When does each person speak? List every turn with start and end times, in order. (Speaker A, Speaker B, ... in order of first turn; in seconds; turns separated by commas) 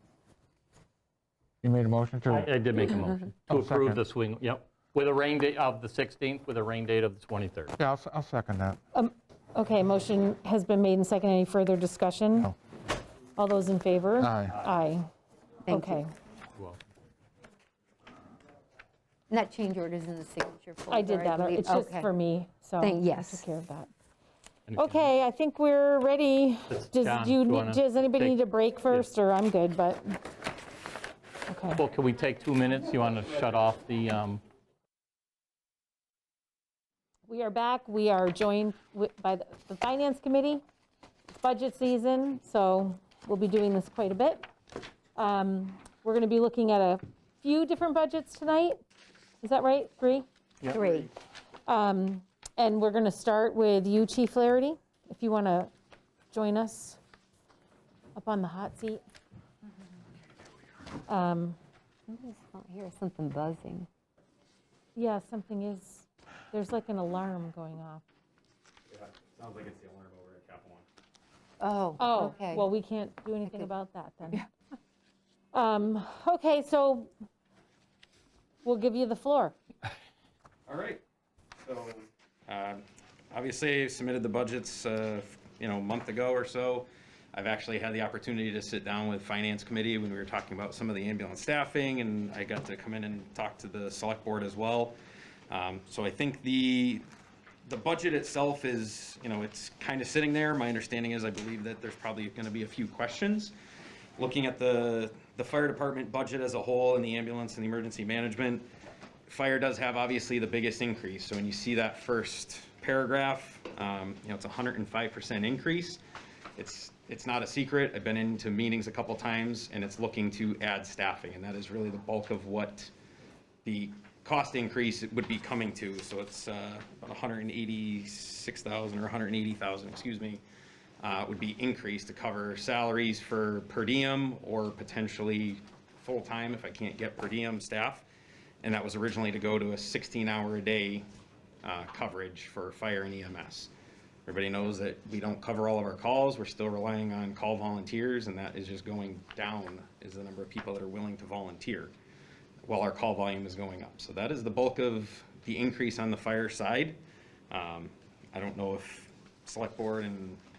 Speaker A: 1.6-2.5, Speaker B: 2.3-7.7, Speaker A: 3.5-4.0, Speaker A: 7.8-8.8, Speaker C: 8.9-12.5, Speaker C: 13.3-15.1, Speaker A: 14.2-14.6, Speaker D: 15.7-16.0, Speaker C: 15.7-16.1, Speaker D: 19.3-22.1, Speaker C: 20.9-23.9, Speaker D: 22.8-23.4, Speaker B: 24.7-25.1, Speaker C: 24.8-30.2, Speaker B: 26.7-28.4, Speaker C: 31.5-31.8, Speaker B: 31.8-34.4, Speaker C: 37.3-40.6, Speaker C: 41.3-44.5, Speaker C: 45.1-48.8, Speaker C: 49.4-50.2, Speaker B: 50.6-51.0, Speaker D: 50.7-51.1, Speaker C: 51.6-55.7, Speaker C: 56.3-57.0, Speaker C: 58.1-59.0, Speaker C: 61.1-61.6, Speaker D: 62.1-63.9, Speaker C: 64.9-68.0, Speaker E: 68.9-70.8, Speaker D: 71.6-72.7, Speaker C: 72.0-74.4, Speaker C: 75.5-77.1, Speaker C: 78.6-79.5, Speaker E: 80.7-81.0, Speaker E: 81.6-94.9, Speaker E: 95.5-97.0, Speaker E: 97.7-103.5, Speaker E: 104.2-108.6, Speaker E: 109.3-116.0, Speaker E: 116.6-122.9, Speaker E: 123.6-130.4, Speaker E: 131.0-138.0, Speaker E: 138.6-141.0, Speaker E: 141.6-143.7, Speaker E: 144.3-151.9, Speaker E: 152.6-157.0, Speaker E: 157.5-160.4